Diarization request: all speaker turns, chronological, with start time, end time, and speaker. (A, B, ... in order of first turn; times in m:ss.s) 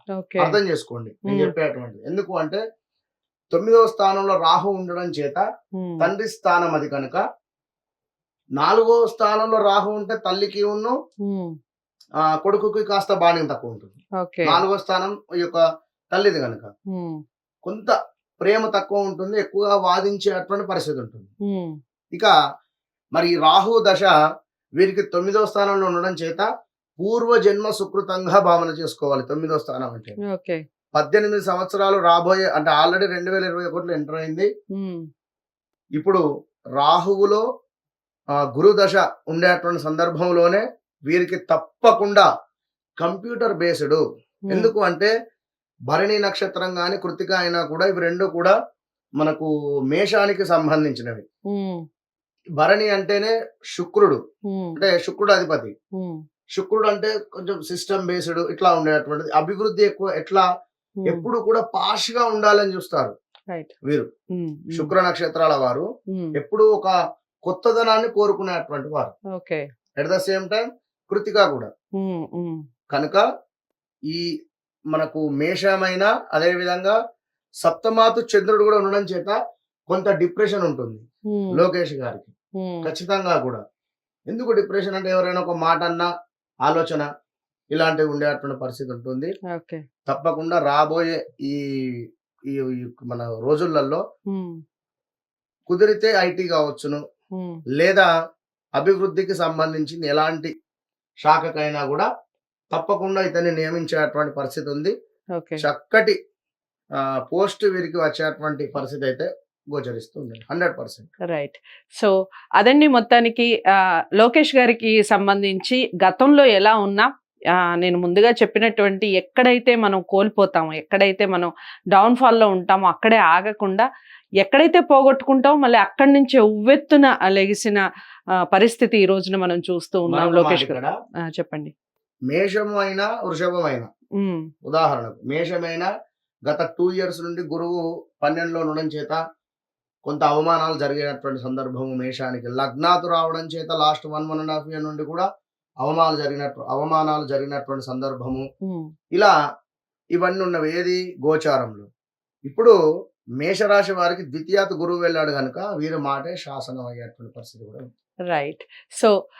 0:00.2-0:00.6 A
0:00.4-0:02.6 B
0:01.2-0:01.5 A
0:03.5-0:05.4 B
0:05.8-0:06.1 A
0:06.0-0:07.2 B
0:08.6-0:10.9 B
0:11.2-0:11.5 A
0:12.2-0:16.7 B
0:14.2-0:14.6 A
0:16.9-0:17.2 A
0:17.6-0:21.3 B
0:21.4-0:21.8 A
0:23.2-0:24.1 B
0:24.8-0:26.5 B
0:27.0-0:30.2 B
0:30.3-0:30.6 A
0:31.0-0:34.5 B
0:34.7-0:35.0 A
0:36.0-0:36.2 B
0:36.8-0:37.4 B
0:38.5-0:42.3 B
0:43.0-0:44.0 B
0:44.5-0:45.1 B
0:45.9-0:48.5 B
0:49.2-0:51.2 B
0:51.5-0:51.8 A
0:52.6-0:54.2 B
0:54.5-0:54.8 A
0:54.8-0:55.7 B
0:56.0-0:56.2 A
0:56.6-1:00.4 B
1:01.0-1:01.3 A
1:01.1-1:03.1 B
1:04.4-1:04.9 A
1:04.7-1:05.8 B
1:06.1-1:06.3 A
1:06.4-1:06.9 B
1:07.4-1:09.1 B
1:09.3-1:09.6 A
1:10.0-1:11.7 B
1:12.0-1:12.6 A
1:12.9-1:13.2 B
1:14.9-1:17.0 B
1:17.6-1:19.4 B
1:19.9-1:21.0 B
1:21.3-1:21.7 A
1:21.5-1:22.3 B
1:22.6-1:22.9 A
1:22.8-1:23.6 B
1:24.3-1:26.1 B
1:26.6-1:27.1 B
1:27.7-1:29.3 B
1:29.5-1:29.8 A
1:30.1-1:31.6 B
1:32.5-1:34.0 B
1:34.3-1:34.6 A
1:35.7-1:37.0 B
1:37.4-1:37.6 A
1:37.8-1:38.1 B
1:38.8-1:40.5 B
1:41.2-1:42.1 B
1:42.7-1:44.9 B
1:45.4-1:45.6 A
1:45.6-1:46.2 B
1:47.0-1:51.1 B
1:51.3-1:53.5 A
1:54.2-2:03.9 A
2:04.4-2:07.8 A
2:08.5-2:11.7 A
2:10.1-2:10.9 B
2:12.3-2:13.8 B
2:14.2-2:14.5 A
2:14.6-2:15.9 B
2:16.5-2:19.2 B
2:20.0-2:25.2 B
2:25.8-2:28.4 B
2:28.6-2:28.9 A
2:30.2-2:31.9 B
2:32.5-2:32.8 B
2:33.4-2:37.8 B
2:38.3-2:39.1 A